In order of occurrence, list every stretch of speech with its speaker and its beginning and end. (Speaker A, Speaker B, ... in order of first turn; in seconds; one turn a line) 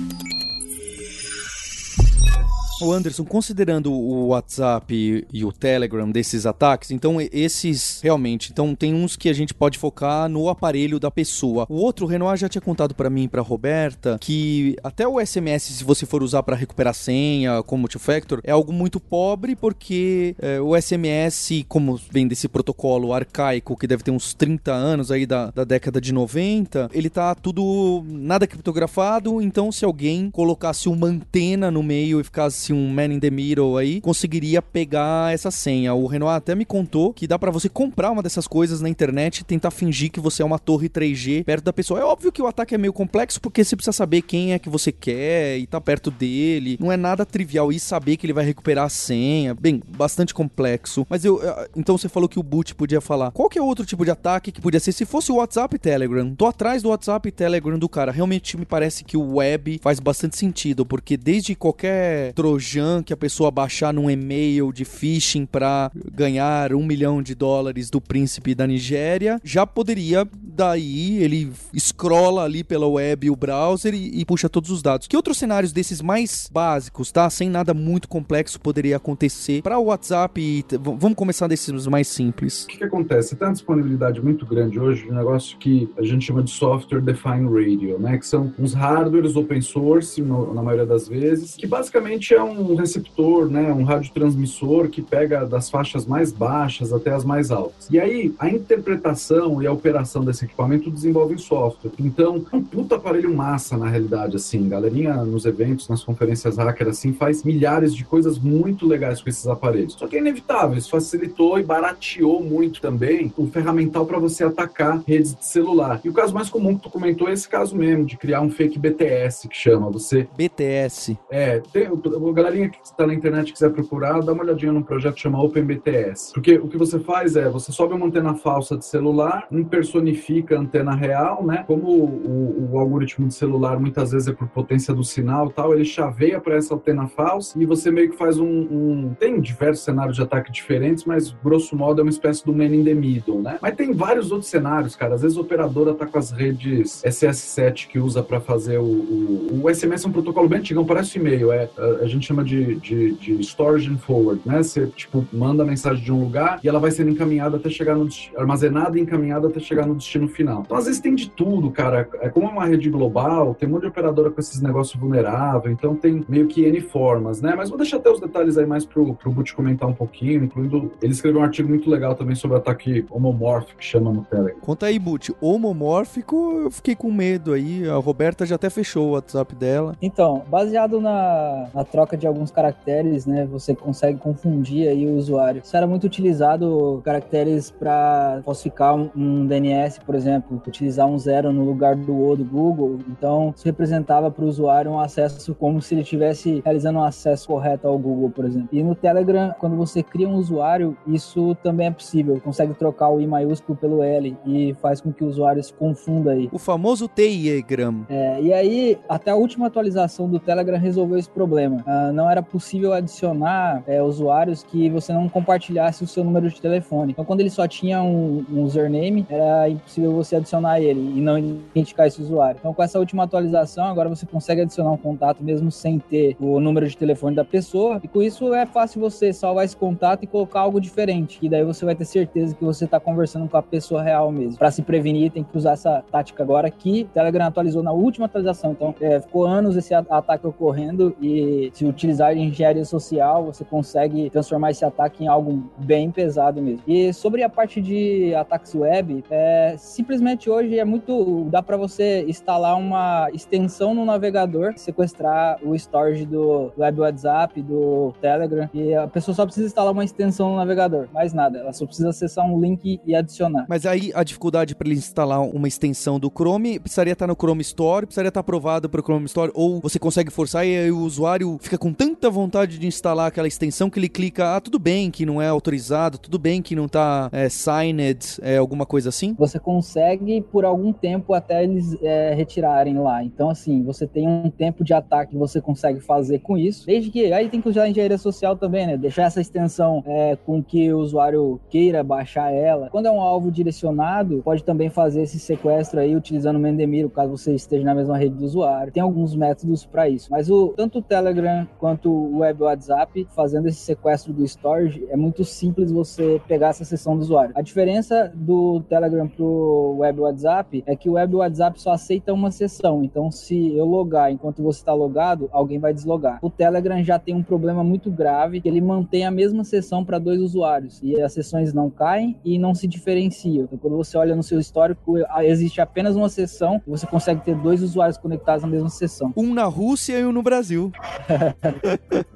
Speaker A: 2.8-82.7
Speaker B: 82.7-120.3
Speaker A: 120.3-121.2
Speaker B: 121.3-174.6
Speaker A: 174.6-180.0
Speaker C: 180.0-206.5
Speaker A: 206.5-208.1
Speaker C: 208.1-263.7
Speaker A: 263.7-279.4
Speaker C: 279.4-329.4
Speaker A: 329.3-330.9
Speaker C: 331.3-331.8
Speaker A: 331.9-332.2